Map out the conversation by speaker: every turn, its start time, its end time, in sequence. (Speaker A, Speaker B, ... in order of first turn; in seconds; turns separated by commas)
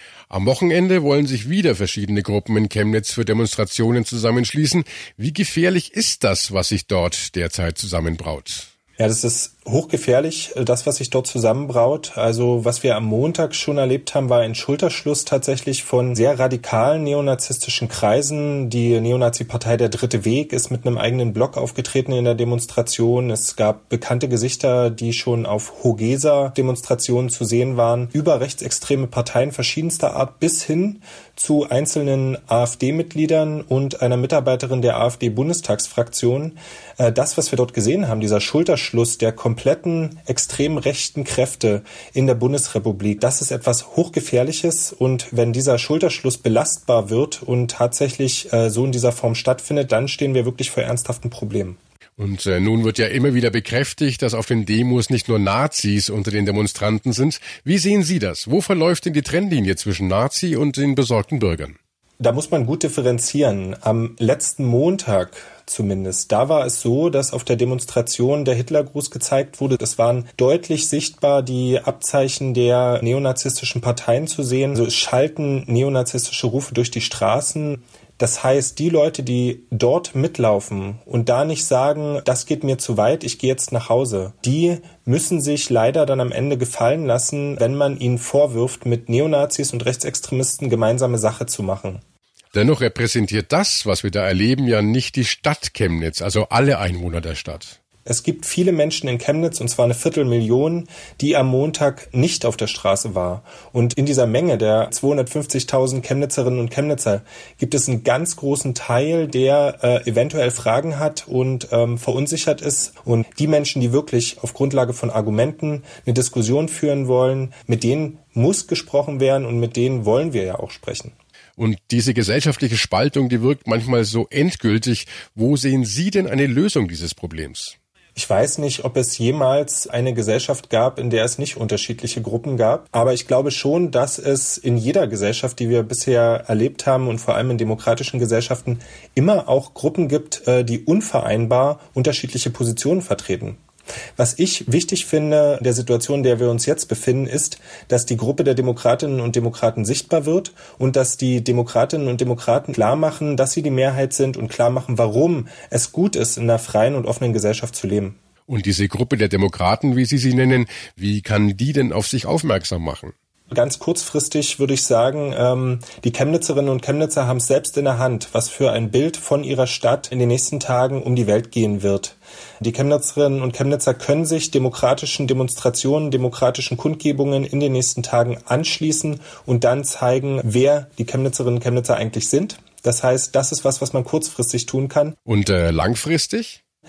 Speaker A: 0.3-8.7, Speaker B: 9.0-51.8, Speaker A: 52.2-61.8, Speaker B: 62.2-92.0, Speaker A: 92.5-97.8, Speaker B: 98.0-121.1, Speaker A: 121.6-127.8, Speaker B: 128.2-143.6, Speaker B: 144.2-158.2, Speaker A: 158.5-163.1, Speaker B: 163.5-185.2, Speaker A: 185.2-186.6